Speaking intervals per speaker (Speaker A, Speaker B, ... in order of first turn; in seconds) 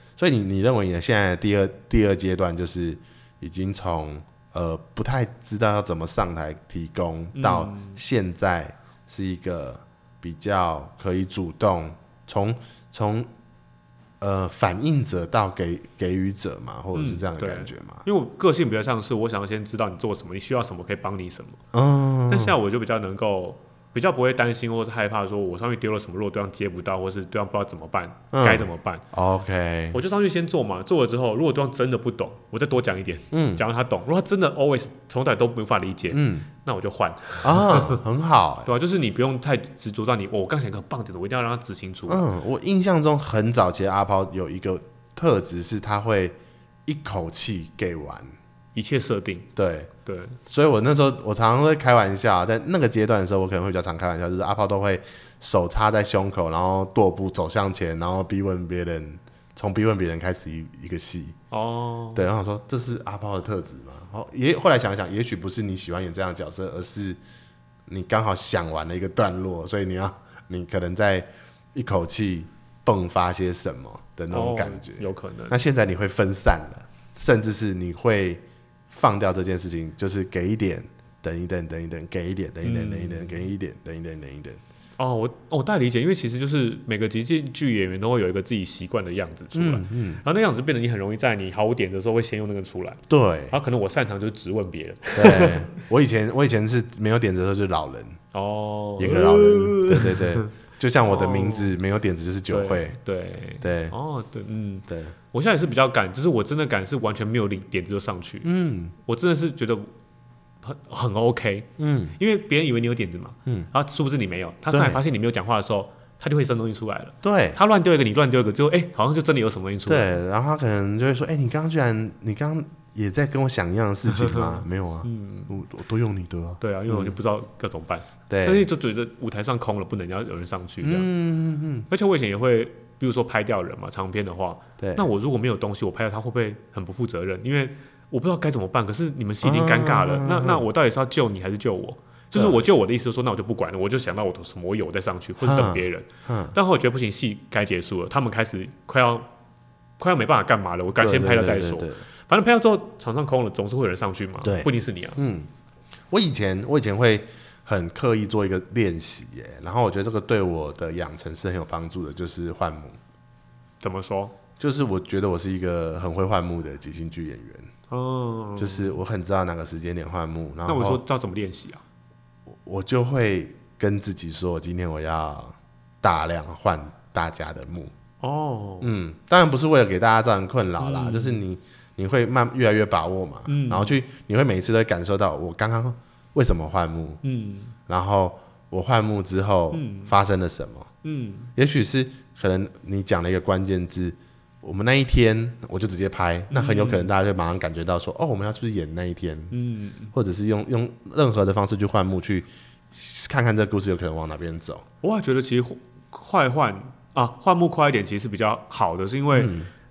Speaker A: 0.2-13.3, 14.2-18.1, 21.7-22.6, 28.3-30.0, 33.3-33.6, 36.1-36.5, 37.4-38.7, 42.1-48.4, 49.5-49.9, 50.5-61.4, 62.1-67.2, 67.9-84.6, 89.5-90.2, 93.1-93.6, 95.1-98.2, 99.0-103.0, 103.6-104.0, 104.9-105.2, 108.4-109.0, 111.8-112.2, 114.7-115.0, 117.2-117.6, 119.9-127.2, 128.3-128.7, 130.8-131.9, 134.8-135.1, 139.4-140.7, 142.3-142.6, 145.4-146.6, 151.0-152.0, 154.4-155.5, 156.1-163.0, 164.6-167.7, 168.6-171.0, 172.5-177.9, 178.8-187.2, 187.9-190.9, 191.6-199.6, 200.1-204.9, 209.3-209.7
Speaker B: 7.3-8.0, 16.9-21.6, 22.3-29.0, 29.9-38.0, 38.7-42.3, 48.8-49.5, 50.0-50.4, 61.5-62.3, 74.3-75.6, 82.6-83.5, 85.0-93.0, 93.5-95.8, 98.3-100.5, 101.1-101.8, 102.5-108.5, 109.1-109.9, 110.6-120.1, 124.1-125.5, 126.6-131.1, 131.9-149.3, 150.0-155.2, 163.8-164.3, 167.9-169.0, 170.7-171.8, 178.2-178.9, 180.8-181.4, 183.5-183.9, 187.2-187.7, 189.7-190.2, 191.0-191.5, 196.5-197.1, 199.5-200.1, 205.0-209.6